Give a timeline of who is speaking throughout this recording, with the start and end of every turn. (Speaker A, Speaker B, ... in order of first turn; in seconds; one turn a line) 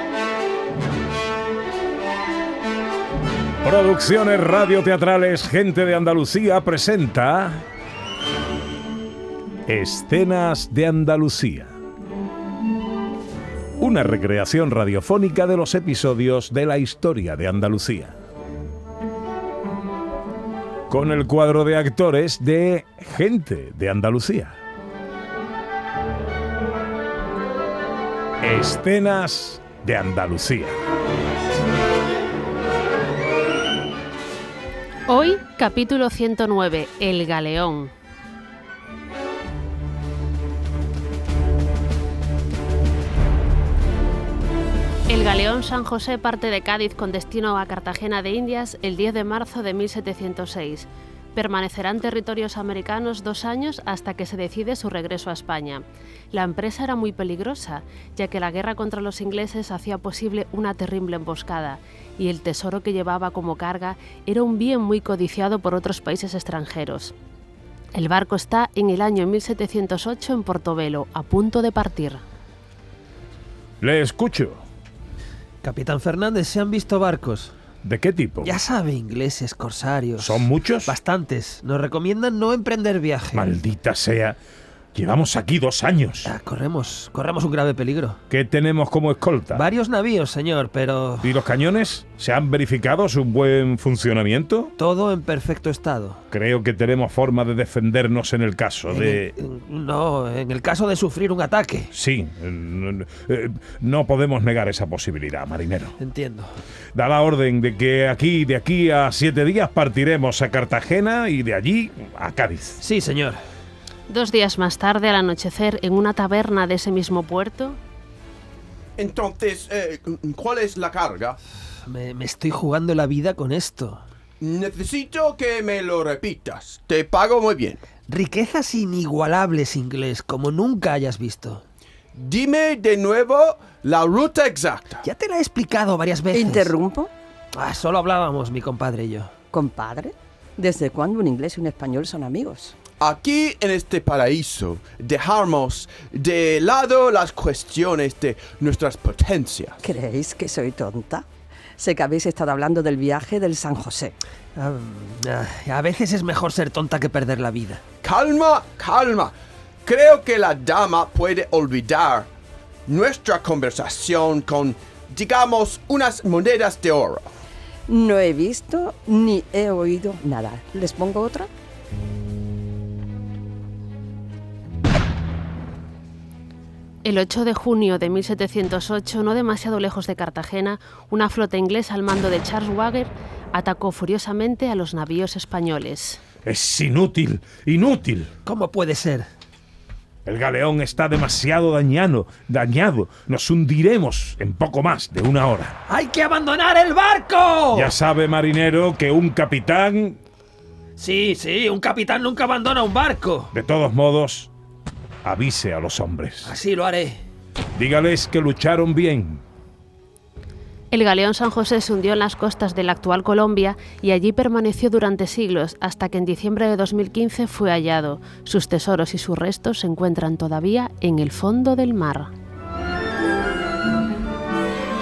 Speaker A: 3.6-7.7
Speaker A: 9.7-11.7
Speaker A: 13.8-18.2
Speaker A: 20.9-24.6
Speaker A: 28.4-30.8
Speaker B: 35.1-37.9
Speaker B: 45.1-67.1
Speaker B: 67.9-72.2
Speaker A: 73.8-74.6
Speaker C: 75.6-77.5
Speaker A: 77.8-78.5
Speaker C: 78.4-83.5
Speaker A: 80.2-81.0
Speaker A: 83.3-84.4
Speaker A: 85.0-86.3
Speaker C: 86.2-88.2
Speaker A: 88.3-89.7
Speaker C: 89.5-91.3
Speaker A: 91.2-94.7
Speaker C: 94.8-96.2
Speaker A: 96.3-99.3
Speaker C: 98.9-101.9
Speaker A: 101.9-105.9
Speaker C: 106.0-106.5
Speaker A: 107.0-112.8
Speaker C: 112.8-113.4
Speaker B: 114.1-117.8
Speaker D: 119.0-121.4
Speaker C: 121.8-124.0
Speaker D: 124.4-127.8
Speaker C: 128.1-131.6
Speaker D: 132.2-135.0
Speaker C: 135.0-136.7
Speaker E: 136.3-137.1
Speaker C: 137.5-139.3
Speaker E: 139.5-142.8
Speaker D: 143.0-149.8
Speaker E: 149.8-151.2
Speaker E: 151.8-154.2
Speaker C: 154.6-157.8
Speaker D: 158.0-159.3
Speaker D: 159.8-162.3
Speaker D: 162.9-167.3
Speaker E: 167.9-171.5
Speaker B: 177.0-186.2
Speaker A: 186.4-188.3
Speaker C: 188.5-189.3
Speaker A: 190.2-195.8
Speaker C: 195.9-197.9
Speaker A: 197.7-200.2
Speaker C: 201.0-203.5
Speaker A: 203.5-204.5
Speaker A: 205.2-206.5
Speaker C: 206.4-207.2
Speaker A: 207.8-209.4
Speaker B: 210.9-222.3